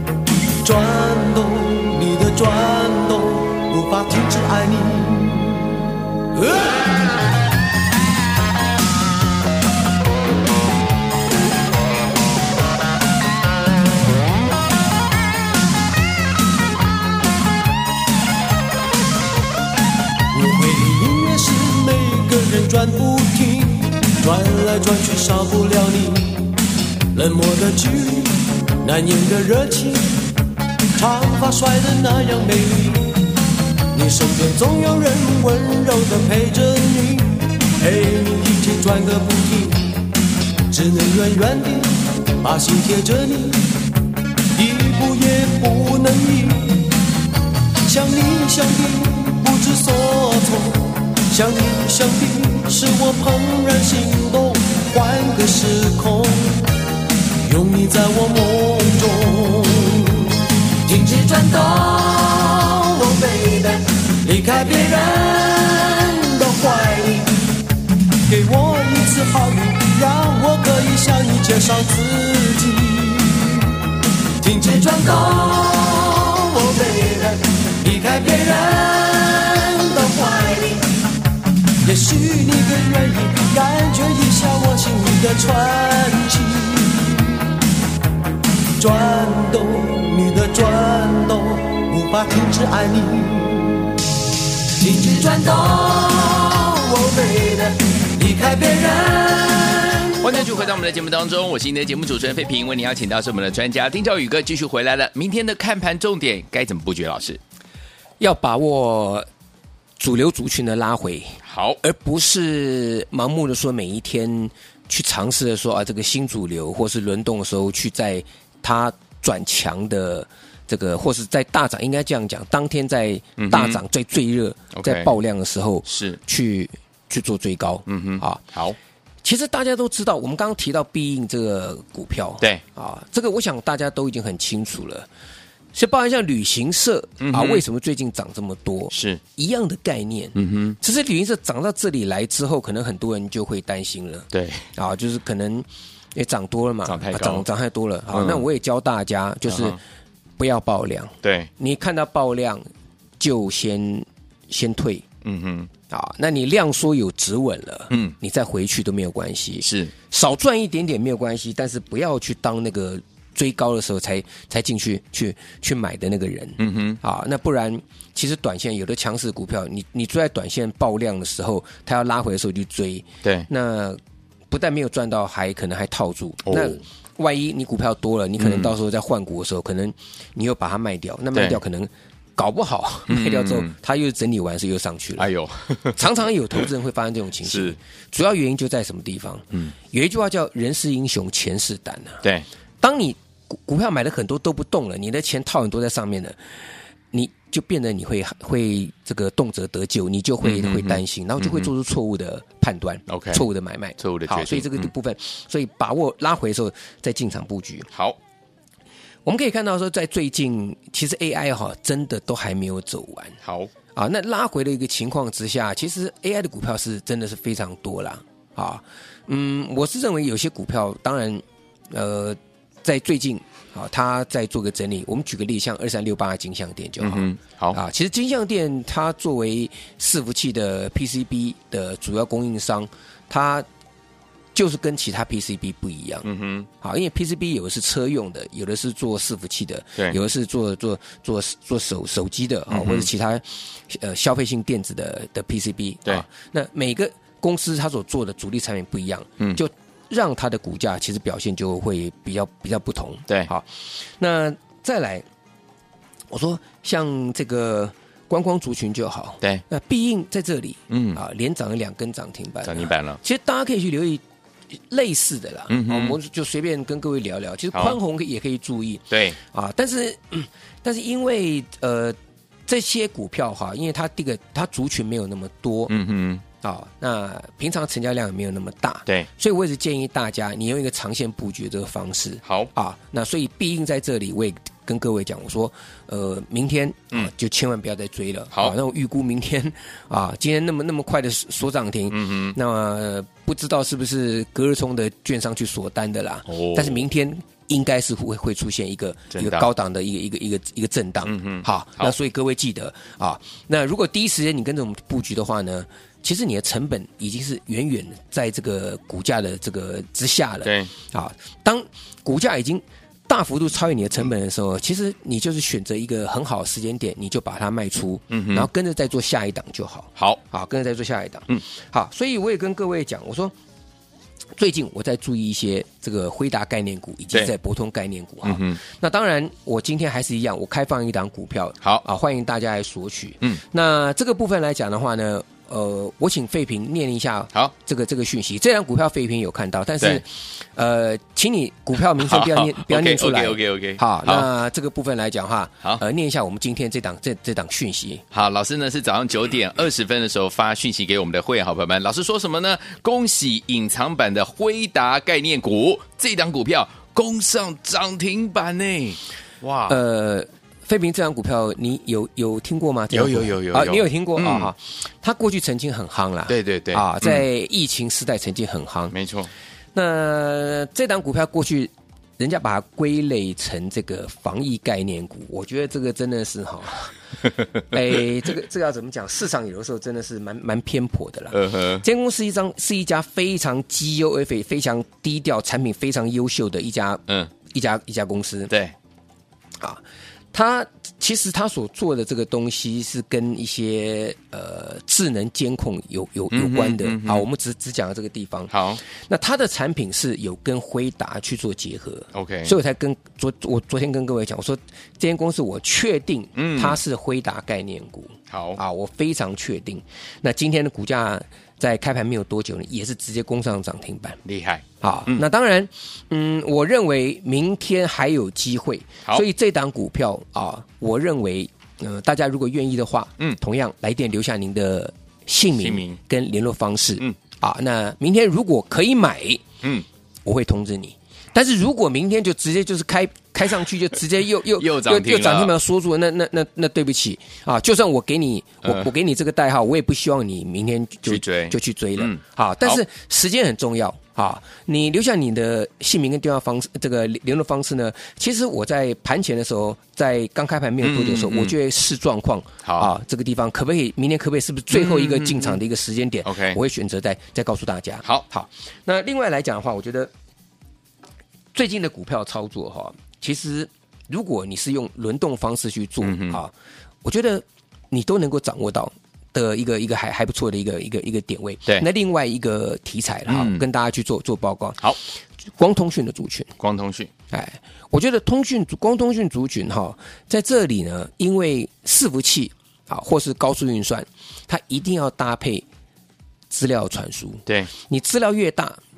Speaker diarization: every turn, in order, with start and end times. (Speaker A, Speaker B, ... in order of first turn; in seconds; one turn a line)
Speaker A: 0.6-6.4
Speaker A: 20.3-26.6
Speaker A: 27.1-30.3
Speaker A: 30.9-33.3
Speaker A: 33.9-40.0
Speaker A: 40.7-43.8
Speaker A: 44.5-47.0
Speaker A: 47.9-56.8
Speaker A: 57.4-67.3
Speaker A: 68.3-73.9
Speaker A: 74.4-80.8
Speaker A: 81.8-87.4
Speaker A: 88.8-94.0
Speaker A: 94.8-100.3
Speaker B: 100.2-107.4
Speaker C: 108.2-109.2
Speaker C: 110.0-128.4
Speaker B: 111.5-111.8
Speaker B: 123.4-123.8
Speaker B: 124.8-125.1
Speaker B: 125.8-126.2
Speaker B: 127.9-128.8
Speaker C: 129.2-135.1
Speaker C: 135.7-149.8
Speaker B: 137.2-137.6
Speaker B: 138.9-139.2
Speaker B: 140.3-140.8
Speaker B: 144.3-144.6
Speaker B: 146.8-147.4
Speaker B: 148.1-148.4
Speaker B: 149.5-149.8
Speaker C: 150.4-152.6
Speaker B: 151.2-151.5
Speaker C: 153.2-155.0
Speaker B: 155.2-155.7
Speaker C: 155.9-174.0
Speaker B: 157.9-158.1
Speaker B: 159.6-159.9
Speaker B: 166.6-167.0
Speaker C: 174.5-185.3
Speaker B: 176.4-176.8
Speaker B: 178.4-178.7
Speaker B: 181.3-181.6
Speaker B: 183.1-183.7
Speaker B: 185.2-186.6
Speaker C: 185.9-192.2
Speaker B: 187.4-187.8
Speaker C: 192.8-196.4
Speaker C: 197.1-207.9
Speaker B: 200.4-201.7
Speaker B: 203.1-203.4
Speaker B: 204.0-204.9
Speaker B: 207.9-208.2
Speaker C: 209.2-213.4
Speaker B: 213.4-213.7
Speaker C: 213.9-233.6
Speaker B: 227.0-227.8
Speaker C: 234.5-236.3
Speaker B: 236.2-236.7
Speaker C: 236.8-253.7
Speaker B: 242.7-243.1
Speaker C: 254.2-255.2
Speaker C: 256.3-264.2
Speaker B: 260.9-261.2
Speaker B: 262.6-263.2
Speaker C: 264.9-272.1
Speaker B: 265.7-266.2
Speaker B: 269.1-269.4
Speaker C: 272.7-275.9
Speaker B: 275.9-276.4
Speaker C: 276.6-323.5
Speaker B: 282.4-282.7
Speaker B: 292.1-292.6
Speaker B: 296.5-297.0
Speaker B: 299.3-299.7
Speaker B: 301.2-302.1
Speaker B: 310.6-310.9
Speaker B: 318.3-318.7
Speaker C: 324.6-348.2
Speaker B: 328.4-328.8
Speaker B: 342.1-344.5
Speaker B: 348.3-360.0
Speaker C: 359.9-369.1
Speaker B: 363.1-364.7
Speaker B: 366.5-367.4
Speaker B: 369.1-369.5
Speaker C: 369.9-377.1
Speaker C: 377.9-388.7
Speaker B: 381.5-382.0
Speaker B: 388.7-388.9
Speaker C: 390.5-414.4
Speaker B: 396.5-397.4
Speaker B: 398.7-399.0
Speaker B: 402.3-402.7
Speaker B: 406.6-407.0
Speaker B: 408.5-408.8
Speaker B: 414.4-415.4
Speaker C: 415.0-429.6
Speaker B: 425.7-426.2
Speaker C: 430.4-460.3
Speaker B: 434.7-435.7
Speaker B: 441.2-443.0
Speaker B: 451.0-451.7
Speaker B: 454.9-455.8
Speaker B: 456.4-456.8
Speaker C: 461.7-466.7
Speaker B: 466.2-466.6
Speaker C: 467.2-475.0
Speaker B: 473.5-473.8
Speaker C: 475.8-476.7
Speaker B: 476.8-477.3
Speaker C: 477.5-485.9
Speaker C: 486.7-489.0